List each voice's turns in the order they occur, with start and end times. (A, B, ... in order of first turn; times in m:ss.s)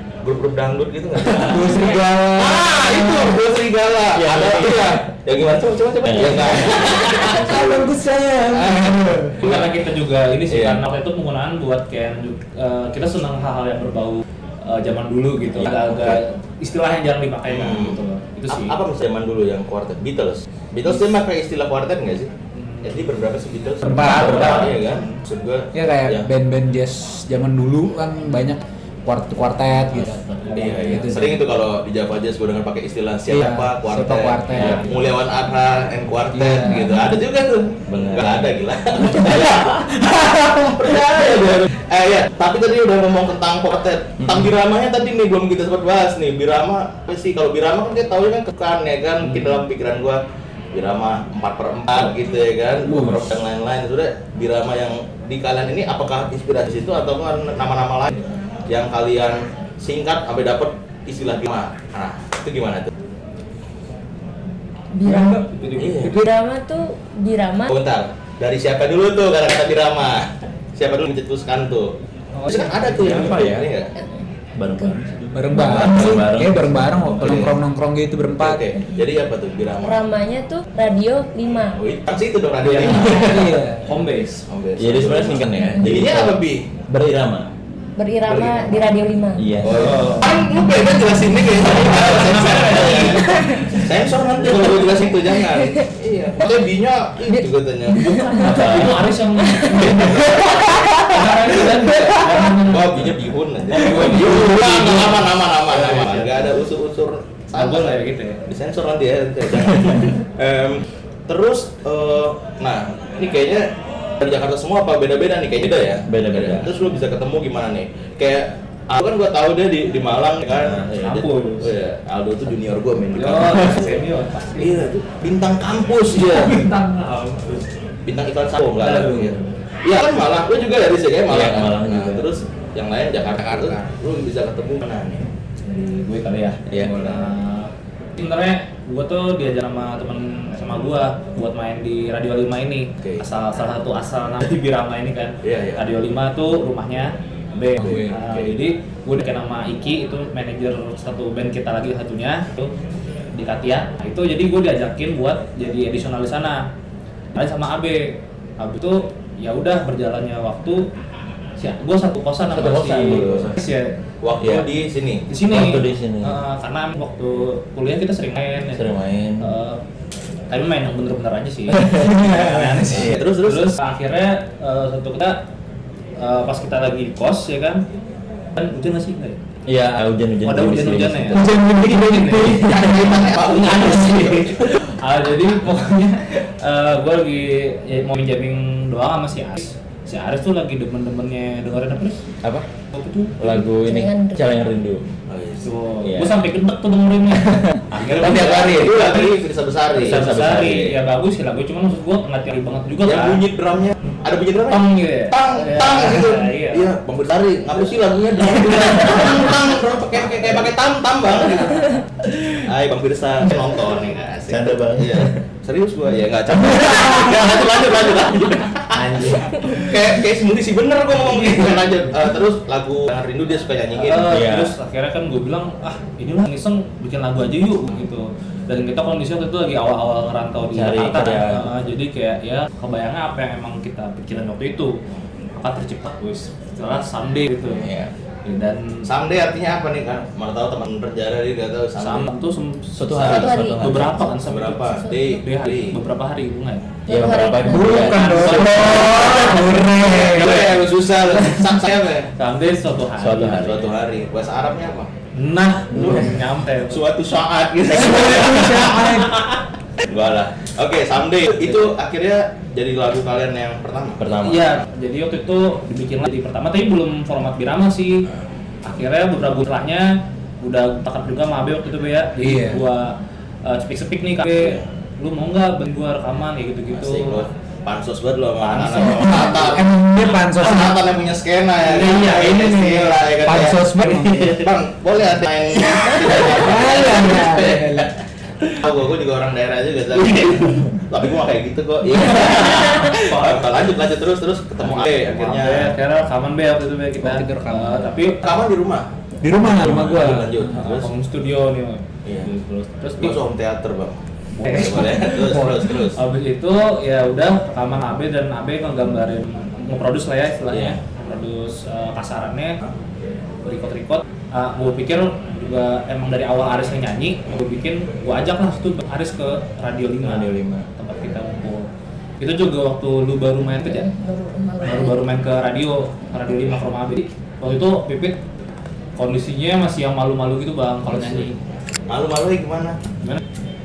0:00.2-0:07.6 A
0:01.3-0:03.4 B
0:04.2-0:05.0 C
0:06.0-0:07.9 C
0:06.8-0:09.4 B
0:08.5-0:09.8 A
0:09.4-0:18.8 D
0:10.5-0:10.8 A
0:15.4-0:16.0 C
0:15.9-0:16.2 A
0:17.5-0:22.3 A
0:22.6-0:23.1 D
0:22.8-0:26.3 A
0:23.8-0:24.8 B
0:24.0-0:24.8 D
0:24.0-0:24.7 C
0:25.7-0:31.4 B
0:30.5-0:31.1 D
0:30.5-1:02.9 A
0:33.3-0:34.8 B
0:34.6-0:34.8 C
0:36.3-0:37.0 B
0:37.9-0:38.5 C
0:39.1-0:39.6 C
0:49.2-0:49.6 D
0:52.8-0:53.3 C
1:04.9-1:07.8 E
1:05.1-1:06.2 D
1:05.8-1:06.2 A
1:07.7-1:13.9 A
1:12.4-1:13.2 B
1:12.9-1:13.7 C
1:14.0-1:15.0 E
1:14.6-1:17.5 C
1:15.3-1:18.6 B
1:15.7-1:16.1 A
1:17.2-1:17.6 A
1:18.4-1:20.0 A
1:19.8-1:21.8 E
1:21.8-1:23.6 A
1:22.6-1:24.4 D
1:23.1-1:23.9 B
1:24.5-1:26.7 A
1:24.8-1:27.5 C
1:28.0-1:29.4 E
1:28.3-1:28.8 A
1:29.4-1:30.1 C
1:29.6-1:38.6 A
1:29.8-1:30.3 D
1:31.7-1:33.5 D
1:33.3-1:33.7 E
1:35.4-1:35.8 E
1:37.3-1:38.6 E
1:38.3-1:43.2 D
1:38.4-1:39.0 C
1:39.4-1:40.7 E
1:39.8-2:04.0 A
1:43.7-1:46.5 D
1:47.5-1:48.4 D
1:56.1-1:56.7 C
2:01.0-2:01.7 D
2:03.2-2:04.9 D
2:04.6-2:06.6 A
2:06.1-2:07.7 D
2:08.1-2:15.3 A
2:08.8-2:09.6 D
2:11.3-2:12.3 C
2:13.4-2:13.7 B
2:15.6-2:32.7 D
2:16.8-2:17.3 A
2:23.0-2:23.2 A
2:25.4-2:25.8 A
2:27.8-2:28.6 A
2:33.3-2:36.7 D
2:37.4-2:40.8 D
2:41.6-2:43.9 D
2:42.4-2:43.6 C
2:43.2-2:43.6 A
2:44.2-2:45.3 A
2:44.4-2:44.7 C
2:45.3-2:48.8 D
2:45.5-2:46.4 C
2:48.7-2:49.5 C
2:49.4-2:49.8 D
2:50.5-2:55.4 D
2:51.7-2:53.2 C
2:52.9-2:53.8 A
2:56.2-2:57.8 D
2:58.5-2:59.4 D
2:59.7-3:01.8 C
3:00.4-3:12.2 D
3:01.6-3:02.4 B
3:02.4-3:04.8 A
3:02.7-3:03.2 C
3:12.9-3:13.6 D
3:13.4-3:15.1 C
3:13.8-3:14.6 E
3:15.3-3:15.7 A
3:15.6-3:19.4 D
3:16.0-3:16.4 C
3:17.4-3:18.9 C
3:17.9-3:20.9 A
3:20.0-3:23.4 D
3:20.0-3:20.8 C
3:23.0-3:32.1 A
3:24.7-3:26.9 D
3:32.6-3:44.4 A
3:34.5-3:35.4 C
3:36.5-3:37.6 C
3:39.0-3:40.0 C
3:44.0-3:55.0 D
3:44.3-3:44.8 C
3:50.7-3:51.7 C
3:55.6-3:57.9 D
3:57.8-3:58.1 A
3:58.4-3:59.1 D
3:59.1-4:02.3 A
4:02.0-4:06.9 D
4:03.0-4:04.3 C
4:03.2-4:03.5 A
4:03.2-4:05.2 E
4:04.4-4:06.0 A
4:07.1-4:08.2 E
4:07.1-4:09.4 C
4:07.6-4:10.8 B
4:07.8-4:09.4 D
4:08.9-4:12.3 A
4:09.2-4:09.6 E
4:12.4-4:13.7 D
4:13.2-4:14.0 C
4:13.5-4:15.1 A
4:15.4-4:17.0 D
4:15.9-4:16.3 C
4:15.9-4:16.4 A
4:16.9-4:19.3 A
4:18.0-4:19.3 B
4:20.0-4:24.3 A
4:24.2-4:24.8 C
4:24.4-4:28.2 D
4:28.8-4:30.1 D
4:30.6-4:37.5 D
4:32.4-4:32.8 B
4:34.5-4:34.8 A
4:36.9-4:39.9 A
4:38.6-4:41.0 B
4:40.5-4:48.1 A
4:41.8-4:44.6 B
4:46.0-4:48.1 B
4:48.7-4:56.0 A
4:52.3-4:53.8 D
4:54.8-4:58.4 D
4:57.2-4:58.1 B
4:58.4-5:01.1 A
4:59.4-5:00.7 B
5:00.7-5:03.4 D
5:02.2-5:02.5 A
5:03.2-5:06.2 A
5:04.6-5:12.8 D
5:04.9-5:05.7 B
5:13.6-5:21.9 D
5:20.2-5:20.9 C
5:22.4-5:24.1 D
5:23.8-5:25.2 E
5:24.8-5:28.4 D
5:29.2-5:31.6 D
5:31.1-5:31.5 A
5:32.1-5:33.0 A